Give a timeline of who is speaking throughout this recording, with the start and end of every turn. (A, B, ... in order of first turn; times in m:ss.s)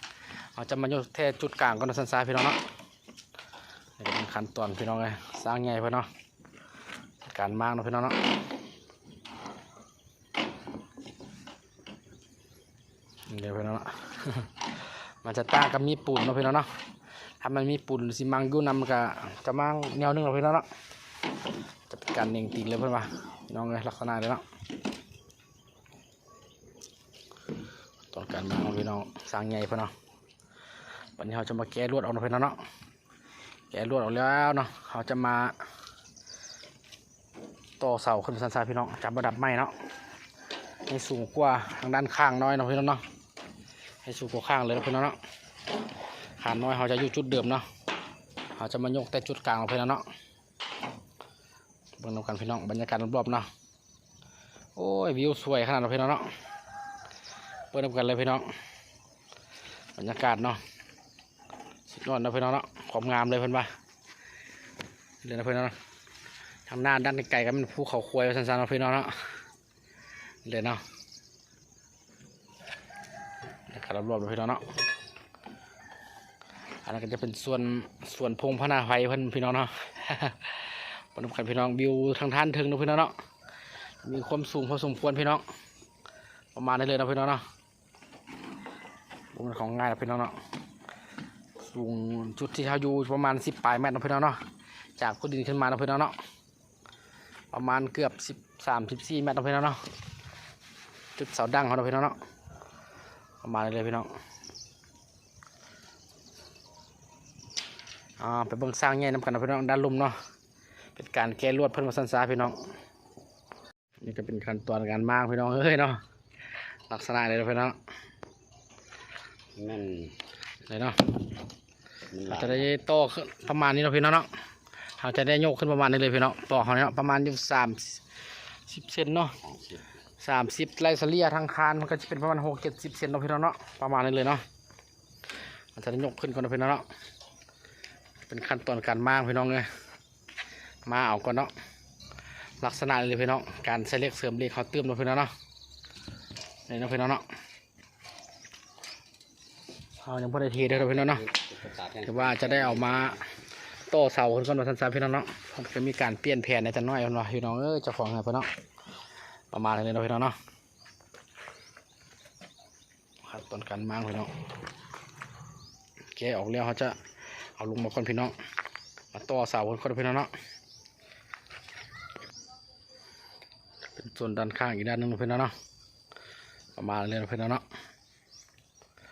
0:00.5-0:02.6 A
0:04.0-0:06.1 A
0:07.2-0:08.3 A
0:13.3-0:16.7 A
0:17.4-0:20.7 A
0:21.9-0:24.4 A
0:28.1-0:29.9 A
0:31.2-0:32.6 A
0:33.7-0:35.6 A
0:37.8-0:39.7 A
0:40.9-0:43.0 A
0:44.0-0:45.2 A
0:46.4-0:47.6 A
0:48.6-0:50.0 A
0:52.0-0:53.5 A
0:54.8-0:56.3 A
0:57.7-0:58.5 A
1:00.0-1:00.6 A
1:01.9-1:03.7 A
1:05.2-1:05.8 A
1:06.7-1:09.3 A
1:10.4-1:10.8 A
1:13.7-1:14.7 A
1:16.8-1:23.1 A
1:24.0-1:25.4 A
1:26.5-1:27.4 A
1:29.3-1:30.4 A
1:31.6-1:34.4 A
1:35.0-1:36.2 A
1:37.5-1:39.8 A
1:41.2-1:42.2 A
1:43.4-1:44.1 A
1:48.2-1:50.2 A
1:50.9-1:52.6 A
1:54.0-1:56.0 A
1:56.9-1:57.8 A
1:59.6-2:00.2 B
2:00.6-2:01.2 A
2:02.1-2:02.6 B
2:02.2-2:04.3 A
2:05.0-2:08.0 A
2:08.6-2:09.4 A
2:10.2-2:14.4 A
2:15.7-2:16.9 A
2:18.2-2:19.7 A
2:20.8-2:21.5 A
2:22.6-2:25.3 A
2:26.7-2:27.2 A
2:30.0-2:31.3 A
2:30.9-2:33.2 B
2:32.0-2:33.2 A
2:33.9-2:38.5 A
2:39.5-2:40.4 A
2:43.2-2:44.3 A
2:46.1-2:47.0 A
2:47.6-2:48.3 A
2:49.1-2:50.3 A
2:53.9-2:55.5 A
2:56.8-2:57.6 A